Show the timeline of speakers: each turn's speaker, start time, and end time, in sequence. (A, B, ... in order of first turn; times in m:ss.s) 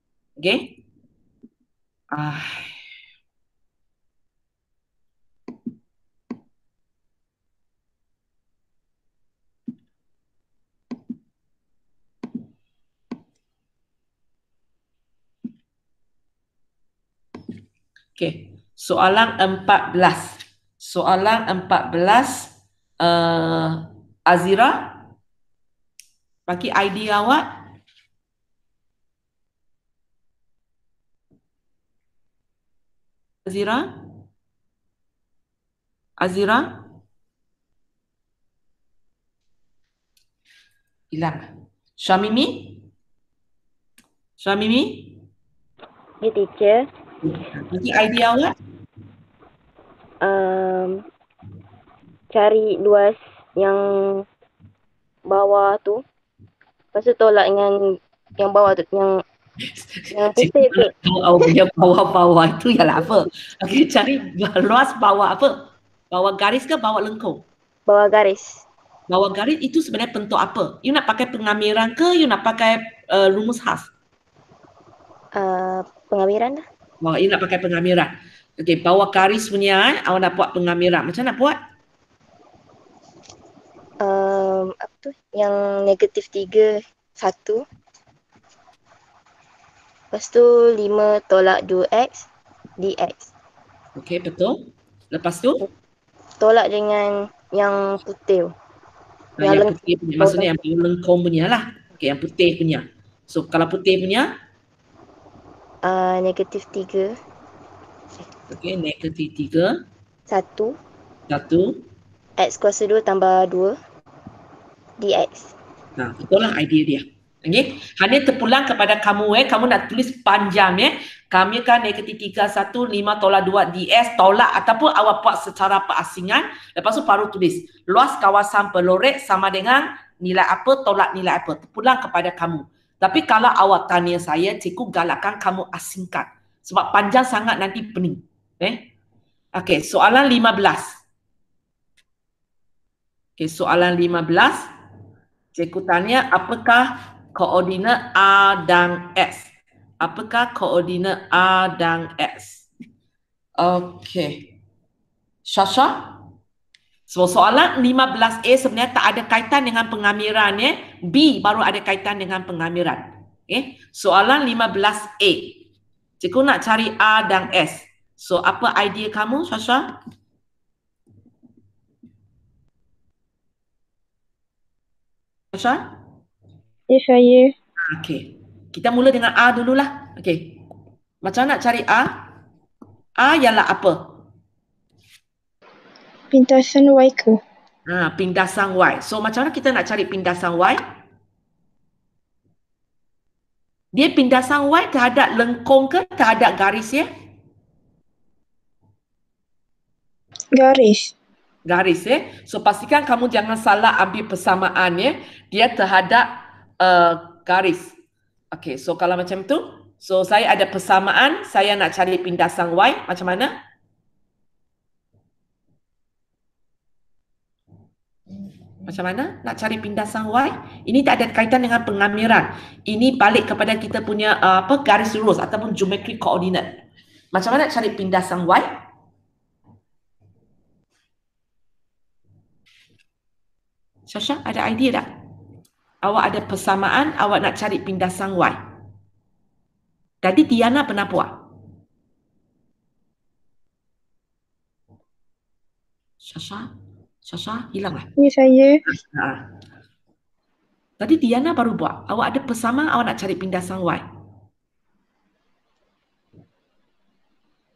0:00.4-0:00.7 A
0:02.1-0:02.8 A
0:18.2-0:25.0 A
0:26.5-0:27.4 A
0:33.4-0:33.9 A
0:36.2-0:36.7 A
0:41.1-0:42.8 A
0:44.4-0:45.1 A
0:46.2-0:46.8 B
0:47.2-0:48.5 A
0:50.2-0:51.0 B
0:52.3-0:54.2 B
0:55.3-0:56.0 B
0:56.9-0:59.2 B
0:59.7-1:05.5 A
1:00.1-1:00.9 B
1:06.1-1:07.4 A
1:07.9-1:08.6 B
1:09.1-1:13.9 A
1:15.3-1:16.6 B
1:17.0-1:21.6 A
1:24.0-1:27.6 B
1:30.1-1:32.3 B
1:32.8-1:33.3 B
1:34.0-1:35.6 A
1:36.4-1:38.5 B
1:39.4-1:44.3 A
1:39.4-1:40.5 B
1:45.8-1:47.2 B
1:48.5-1:49.7 A
1:50.3-1:50.8 B
1:51.3-1:51.8 A
1:52.4-1:53.8 B
1:55.0-1:55.5 B
1:56.0-2:18.8 A
2:19.6-2:21.0 A
2:23.4-2:24.7 A
2:25.5-2:32.7 A
2:33.6-2:34.5 A
2:35.5-2:36.1 A
2:37.1-2:45.6 A
2:46.2-2:49.9 A
2:55.5-2:55.8 A
2:56.9-2:57.5 C
2:57.8-3:00.5 A
3:01.2-3:02.1 A
3:03.2-3:04.0 A
3:06.3-3:07.4 C
3:07.9-3:10.8 A
3:13.9-3:17.1 A
3:20.5-3:21.1 C
3:21.7-3:27.9 A
3:28.5-3:33.5 A
3:38.9-3:46.7 A
3:47.3-3:48.7 A
3:54.1-3:55.1 A
3:56.0-3:58.6 A
4:00.2-4:01.3 A
4:06.2-4:06.7 A
4:07.3-4:08.1 A
4:08.2-4:08.8 C
4:08.8-4:09.4 A
4:11.0-4:14.0 A